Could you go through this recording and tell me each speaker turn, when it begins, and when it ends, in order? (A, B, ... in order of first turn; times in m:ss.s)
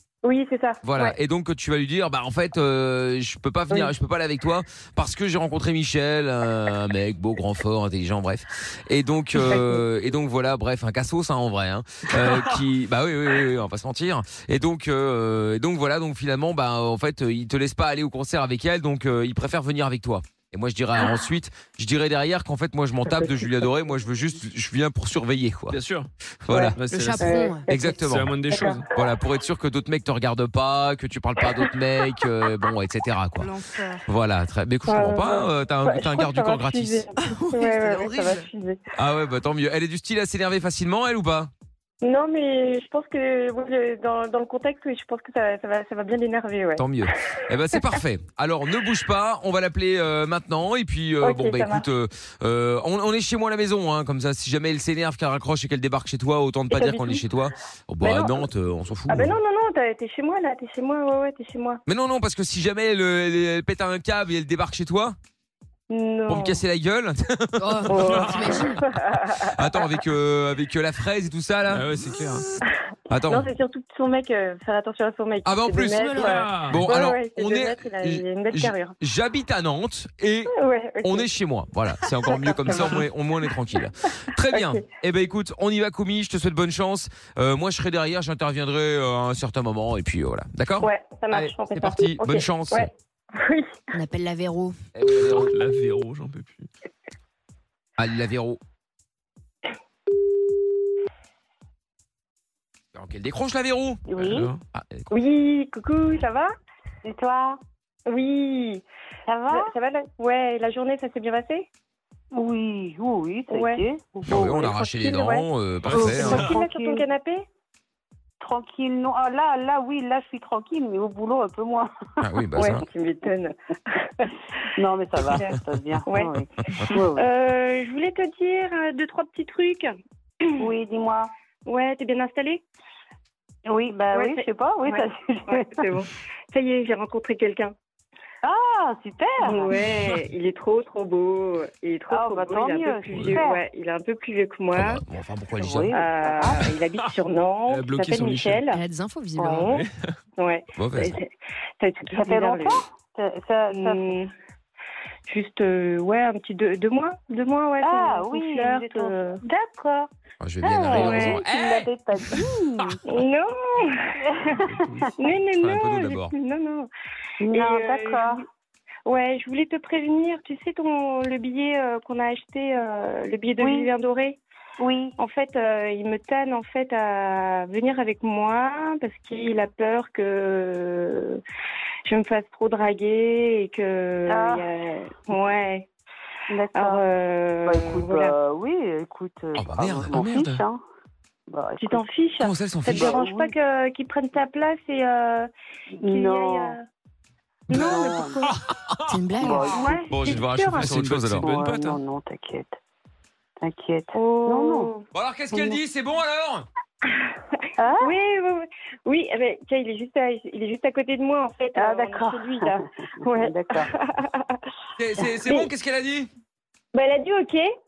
0:00.2-0:01.1 A
0:00.8-0:25.8 B
0:09.4-0:09.8 A
0:25.7-0:26.1 C
0:26.4-0:26.8 B
0:26.5-0:27.9 A
0:26.8-0:27.4 C
0:26.9-0:27.6 D
0:27.6-0:28.4 B
0:28.0-0:28.9 C
0:28.5-0:28.8 A
0:28.9-0:37.0 B
0:33.4-0:33.9 D
0:34.9-0:38.8 A
0:39.0-0:41.5 B
0:42.0-0:46.8 A
0:46.8-0:59.3 B
0:51.2-0:51.8 A
0:56.7-0:57.2 A
0:58.0-0:58.4 A
0:59.1-1:01.8 A
1:01.9-1:05.2 B
1:05.9-1:06.6 A
1:06.3-1:08.2 B
1:07.6-1:09.0 D
1:07.9-1:09.8 A
1:08.1-1:08.5 C
1:09.4-1:11.9 B
1:11.7-1:12.5 C
1:13.1-1:13.5 B
1:13.2-1:19.0 A
1:15.4-1:20.5 B
1:16.0-1:16.3 D
1:16.1-1:16.8 C
1:20.5-1:21.3 A
1:21.0-1:32.9 B
1:22.2-1:23.0 A
1:24.5-1:24.8 A
1:30.8-1:33.9 A
1:33.9-1:34.8 D
1:34.9-1:35.5 B
1:35.1-1:36.7 C
1:38.0-1:38.6 B
1:42.9-1:45.1 B
1:44.1-1:44.5 A
1:44.3-1:44.6 C
1:45.1-1:46.5 A
1:47.0-1:47.6 E
1:48.0-1:48.8 A
1:49.3-1:49.7 E
1:49.5-1:51.6 A
1:52.3-1:54.5 E
1:53.5-1:57.4 A
1:54.3-1:56.5 B
1:55.9-1:56.5 C
1:55.9-1:57.0 E
1:58.4-2:01.9 E
2:02.2-2:02.8 B
2:02.5-2:04.4 A
2:04.8-2:07.3 E
2:06.1-2:09.9 A
2:10.6-2:11.3 E
2:11.6-2:12.6 A
2:13.6-2:15.8 E
2:14.1-2:17.7 A
2:18.4-2:19.7 E
2:19.4-2:25.0 A
2:22.1-2:23.6 E
2:24.7-2:25.9 B
2:25.6-2:26.7 E
2:25.9-2:28.8 A
2:27.7-2:28.6 C
2:28.6-2:29.7 D
2:29.4-2:29.8 A
2:29.7-2:30.1 C
2:30.4-2:31.3 A
2:30.8-2:31.2 B
2:31.8-2:32.8 A
2:32.1-2:34.2 E
2:33.7-2:34.3 A
2:35.3-2:40.1 A
2:37.8-2:39.1 E
2:40.4-2:42.4 B
2:40.6-2:41.4 A
2:40.9-2:43.0 E
2:43.0-2:44.2 A
2:44.3-2:45.1 E
2:44.8-2:45.1 C
2:45.2-2:46.9 A
2:45.6-2:46.3 B
2:47.4-2:48.4 E
2:47.4-2:48.4 A
2:49.0-2:54.4 A
2:53.6-2:53.9 E
2:54.8-2:55.1 E
2:55.2-3:01.4 A
3:02.0-3:05.9 A
3:04.3-3:05.3 E
3:06.5-3:07.1 E
3:06.8-3:08.3 A
3:07.6-3:10.8 E
3:09.5-3:10.6 B
3:11.5-3:12.1 E
3:11.8-3:15.5 A
3:12.4-3:13.2 B
3:12.9-3:13.5 E
3:15.9-3:16.8 E
3:16.0-3:16.8 A
3:17.7-3:18.5 A
3:17.7-3:18.1 B
3:17.7-3:18.5 E
3:19.1-3:19.9 D
3:19.4-3:20.0 E
3:19.4-3:20.9 A
3:20.1-3:21.5 B
3:20.8-3:22.0 C
3:21.4-3:22.7 E
3:23.6-3:24.9 E
3:24.1-3:25.0 A
3:25.1-3:26.6 B
3:25.5-3:25.8 E
3:27.8-3:28.1 E
3:28.0-3:34.6 A
3:31.7-3:33.9 E
3:35.0-3:36.3 B
3:35.4-3:35.7 A
3:36.9-3:37.7 A